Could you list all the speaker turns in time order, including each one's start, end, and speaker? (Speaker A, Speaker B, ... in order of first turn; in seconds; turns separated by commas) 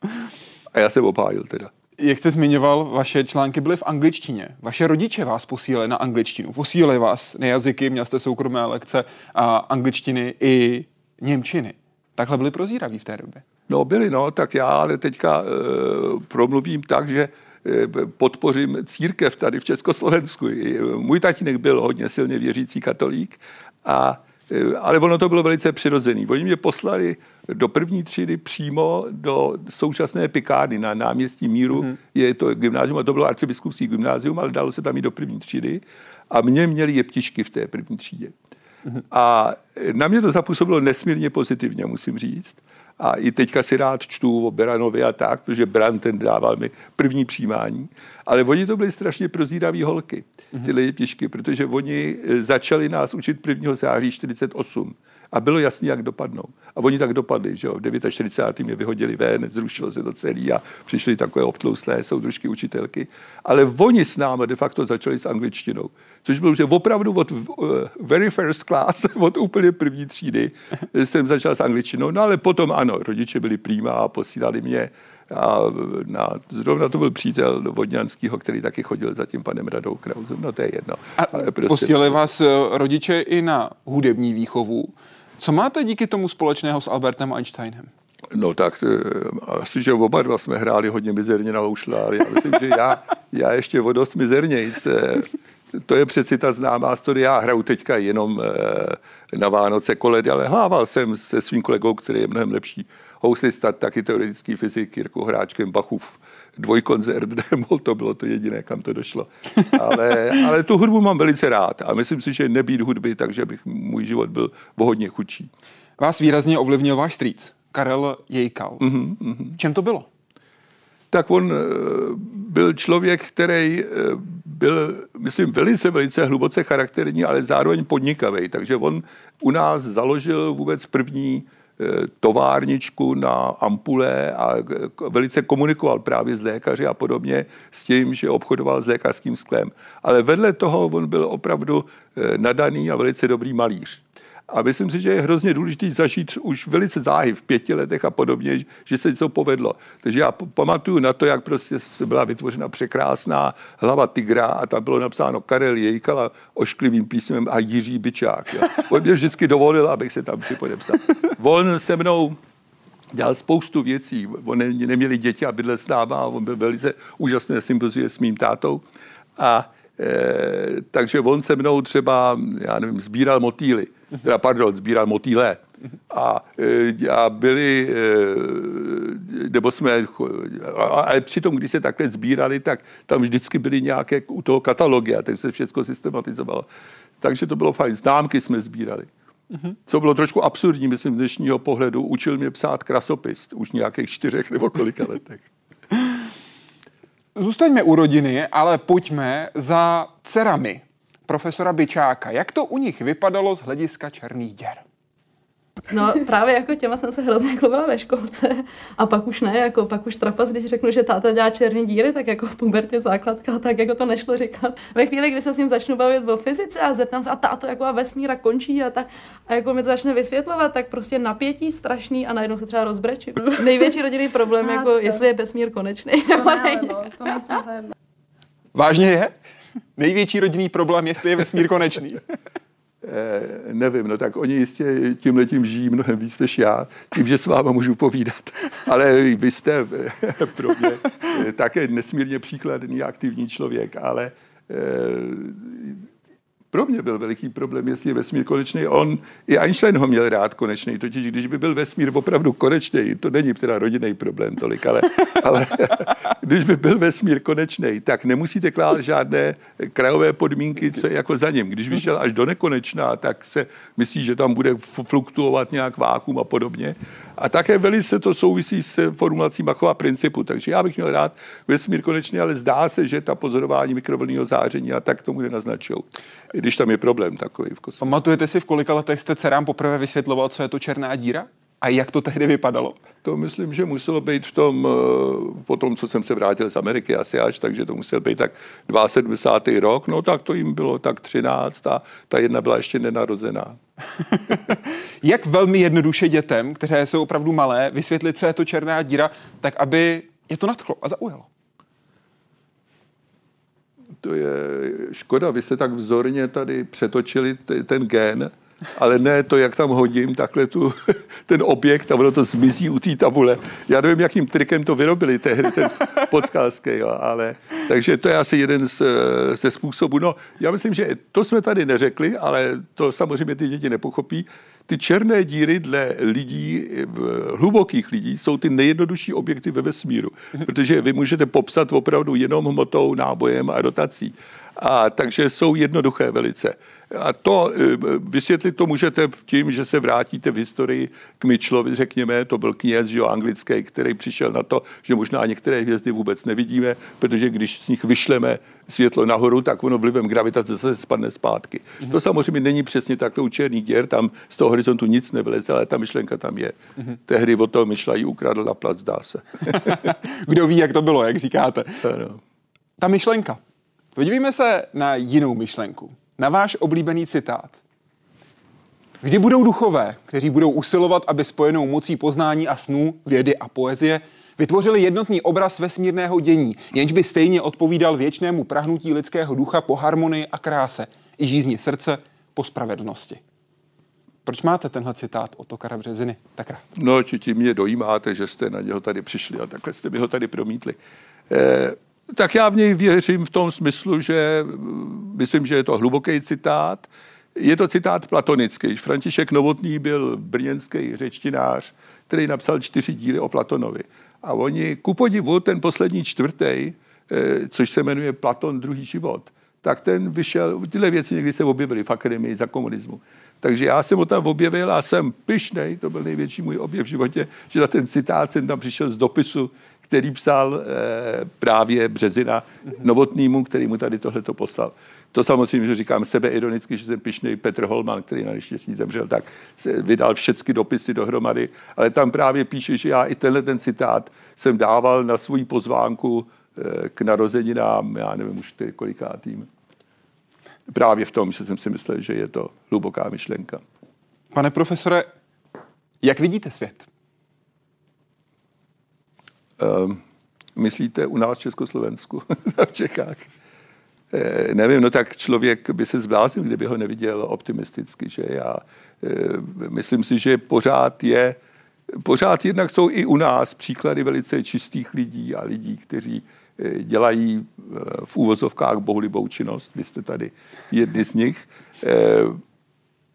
Speaker A: 0.7-1.7, Speaker B: 2.0-13.4, Speaker A: 13.7-38.3, Speaker A: 39.0-82.0, Speaker B: 81.2-87.9, Speaker A: 88.3-95.3, Speaker A: 95.8-115.5, Speaker B: 116.0-118.9, Speaker A: 118.8-119.6, Speaker B: 119.6-120.1, Speaker A: 121.1-162.4, Speaker A: 163.1-168.8, Speaker A: 169.4-186.7, Speaker A: 187.2-189.1, Speaker A: 189.9-195.4, Speaker B: 197.4-204.8, Speaker C: 205.9-227.8, Speaker B: 228.7-229.3, Speaker B: 230.0-232.2, Speaker A: 233.0-246.0, Speaker A: 246.7-278.1, Speaker B: 278.0-283.0, Speaker A: 283.2-293.8, Speaker B: 294.5-301.5, Speaker A: 304.2-360.1, Speaker B: 359.7-362.0, Speaker A: 362.0-362.4, Speaker B: 363.0-363.6, Speaker B: 364.2-367.8, Speaker B: 369.2-383.4, Speaker B: 384.5-386.8, Speaker A: 386.9-391.0, Speaker A: 391.5-439.7, Speaker A: 440.9-443.8, Speaker B: 444.5-445.3, Speaker B: 446.2-447.1, Speaker A: 449.8-450.2, Speaker A: 450.8-453.5, Speaker A: 454.3-461.6, Speaker A: 462.2-472.6